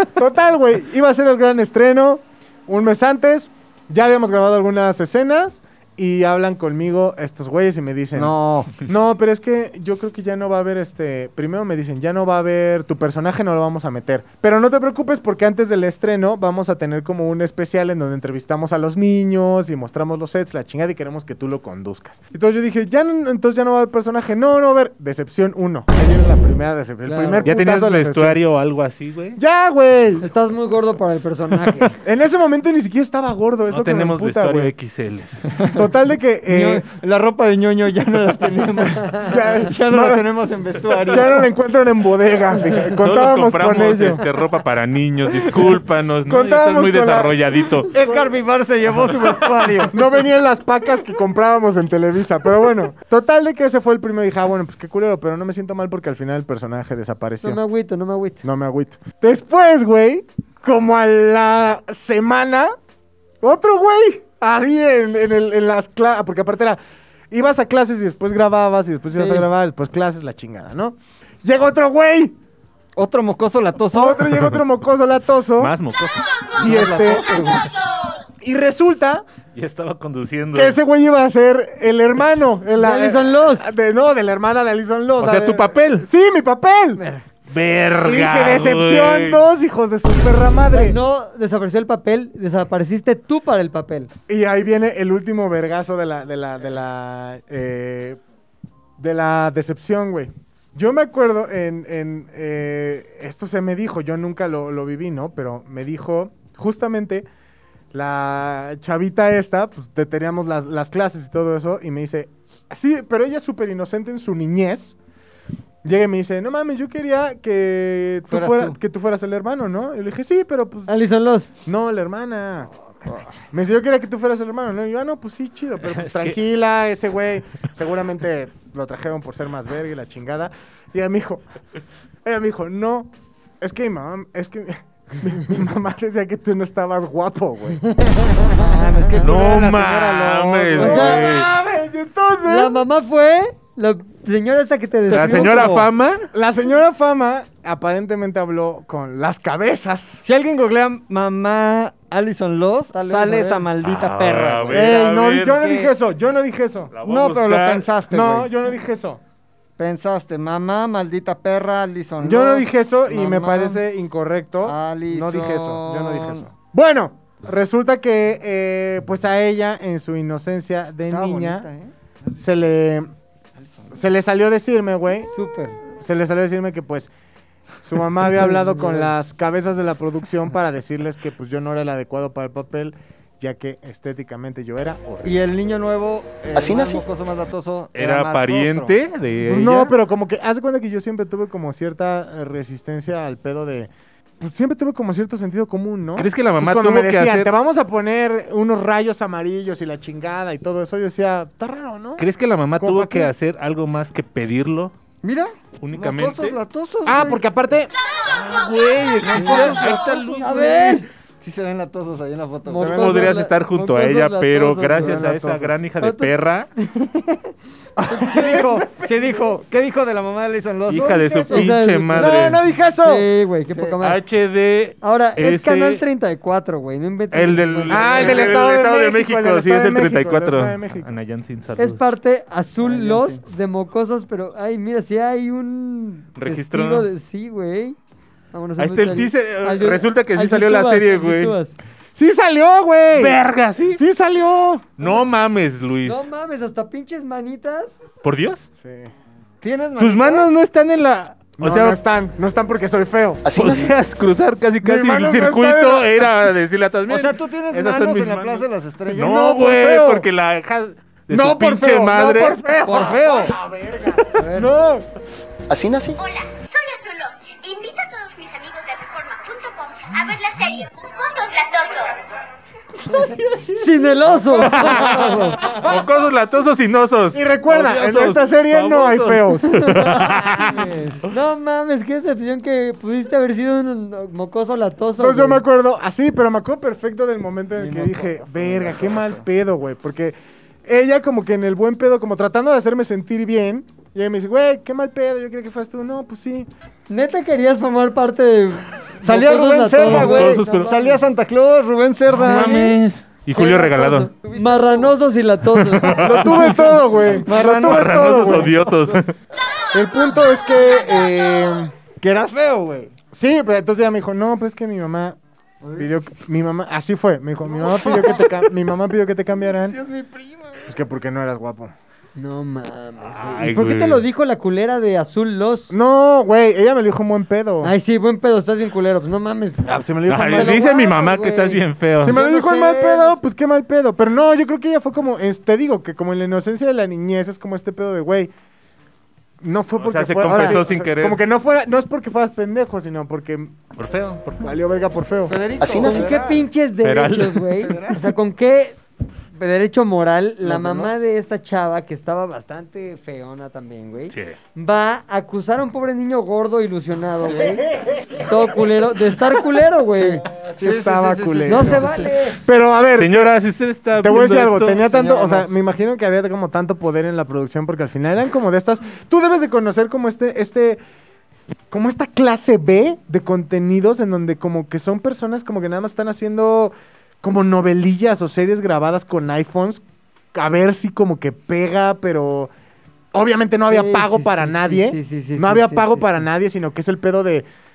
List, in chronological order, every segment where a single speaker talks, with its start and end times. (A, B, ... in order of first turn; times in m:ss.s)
0:00.2-0:28.4 A
0:08.2-0:08.9 B
0:27.0-0:27.5 C
0:27.4-0:29.4 D
0:29.4-0:30.3 A
0:30.2-0:31.9 C
0:32.0-0:34.7 A
0:33.7-0:35.4 D
0:35.5-0:35.8 B
0:35.7-0:36.8 A
0:36.5-0:41.4 B
0:39.1-0:40.3 A
0:41.1-0:44.2 A
0:43.0-0:47.9 D
0:46.3-0:47.4 A
0:47.9-0:48.3 A
0:47.9-0:50.0 B
0:49.9-0:57.6 A
0:57.4-0:58.4 C
0:58.4-1:02.7 A
1:03.4-1:06.8 A
1:07.3-1:12.4 A
1:09.2-1:09.5 C
1:13.0-1:14.3 B
1:13.9-1:15.8 A
1:15.6-1:16.2 D
1:16.6-1:17.7 B
1:16.6-1:17.3 A
1:18.4-1:19.2 A
1:19.6-1:20.8 D
1:20.5-1:27.0 A
1:22.8-1:23.7 C
1:25.2-1:26.1 D
1:27.0-1:27.3 C
1:27.5-1:29.4 D
1:28.0-1:31.0 A
1:30.7-1:34.1 C
1:34.3-1:38.2 A
1:39.0-1:47.3 A
1:47.9-1:55.0 A
1:55.8-2:00.9 A
1:58.3-1:58.8 B
2:00.9-2:01.5 C
2:01.7-2:02.7 A
2:03.5-2:11.4 A
2:06.0-2:06.4 D
2:12.2-2:17.8 A
2:18.0-2:18.6 C
2:18.5-2:21.2 B
2:19.2-2:21.5 D
2:20.8-2:22.8 A
2:20.8-2:21.2 C
2:22.4-2:25.8 C
2:25.1-2:25.9 B
2:25.1-2:26.3 D
2:26.3-2:30.2 A
2:30.2-2:35.9 B
2:32.9-2:33.7 C
2:33.8-2:35.7 D
2:34.7-2:36.9 A
2:36.9-2:37.9 D
2:37.0-2:38.5 B
2:38.1-2:39.2 A
2:39.8-2:43.8 B
2:42.2-2:51.7 A
2:44.6-2:46.5 B
2:51.1-2:51.9 B
2:52.3-2:53.1 A
2:53.6-2:53.9 B
2:53.9-2:55.3 A
2:55.3-2:55.8 C
2:56.0-2:57.1 A
2:57.8-3:05.4 A
2:58.4-2:59.1 C
3:05.2-3:09.0 B
3:06.6-3:07.0 E
3:08.0-3:09.9 D
3:09.4-3:22.2 A
3:16.2-3:17.5 D
3:22.2-3:24.9 D
3:22.8-3:23.3 A
3:25.2-3:27.4 B
3:25.8-3:26.6 D
3:27.0-3:27.9 A
3:28.3-3:31.0 D
3:29.2-3:30.2 B
3:29.4-3:30.0 A
3:30.3-3:31.1 C
3:31.4-3:33.3 B
3:32.7-3:35.3 C
3:32.8-3:36.7 D
3:35.0-3:35.8 B
3:36.0-3:37.5 C
3:38.0-3:39.3 A
3:38.1-3:38.7 C
3:38.1-3:41.7 B
3:40.9-3:42.6 D
3:41.5-3:44.2 C
3:42.1-3:43.3 A
3:43.7-3:44.0 B
3:44.0-3:46.0 D
3:45.0-3:48.6 C
3:47.3-3:52.0 D
3:47.9-3:51.1 A
3:51.8-3:58.0 C
3:52.8-3:53.4 B
3:56.4-3:57.1 D
3:58.5-4:01.8 C
3:58.8-4:01.6 D
4:02.2-4:03.4 A
4:03.1-4:04.0 D
4:03.9-4:04.9 A
4:05.0-4:06.3 D
4:06.0-4:08.0 C
4:08.2-4:08.7 D
4:08.8-4:09.1 A
4:09.6-4:10.5 B
4:10.0-4:12.0 D
4:11.6-4:13.4 A
4:13.4-4:13.9 E
4:13.6-4:22.6 D
4:14.8-4:16.6 A
4:17.1-4:19.4 B
4:19.2-4:20.3 A
4:21.3-4:25.1 A
4:22.8-4:23.6 B
4:24.3-4:24.7 C
4:25.7-4:26.2 E
4:26.2-4:32.2 F
4:33.0-4:35.8 B
4:33.1-4:35.4 C
4:34.7-4:40.8 D
4:37.3-4:39.9 A
4:39.7-4:40.6 C
4:40.5-4:41.3 B
4:41.3-4:45.6 C
4:45.2-4:56.7 A
4:47.8-4:49.4 B
4:57.1-5:01.2 C
4:59.2-5:02.8 B
5:00.0-5:01.0 D
5:02.3-5:04.3 D
5:02.5-5:03.0 C
5:03.5-5:06.5 C
5:04.4-5:05.1 B
5:05.8-5:06.9 D
5:06.2-5:08.7 A
5:07.4-5:09.2 B
5:07.5-5:09.3 D
5:09.9-5:11.9 A
5:12.2-5:13.1 B
5:13.3-5:15.4 A
5:15.8-5:16.1 B
5:16.0-5:20.0 A
5:17.7-5:18.7 B
5:19.6-5:20.9 B
5:20.9-5:21.9 A
5:22.4-5:25.9 C
5:23.3-5:24.2 D
5:25.9-5:27.9 A
5:27.8-5:33.4 C
5:29.8-5:30.9 A
5:30.3-5:32.4 D
5:32.2-5:38.5 A
5:39.6-5:43.8 A
5:40.0-5:41.4 D
5:44.0-5:44.6 D
5:44.6-5:45.6 A
5:45.5-5:46.7 B
5:45.8-5:46.4 E
5:46.0-5:49.0 C
5:47.0-5:47.8 D
5:47.8-5:48.3 B
5:49.5-6:00.4 C
5:50.6-5:51.2 B
5:57.5-5:58.4 B
6:00.1-6:02.3 B
6:00.6-6:03.6 A
6:01.6-6:02.6 C
6:03.2-6:05.3 D
6:04.2-6:11.0 A
6:05.3-6:05.7 B
6:11.9-6:20.0 A
6:20.5-6:22.7 A
6:23.3-6:27.7 A
6:23.9-6:26.5 C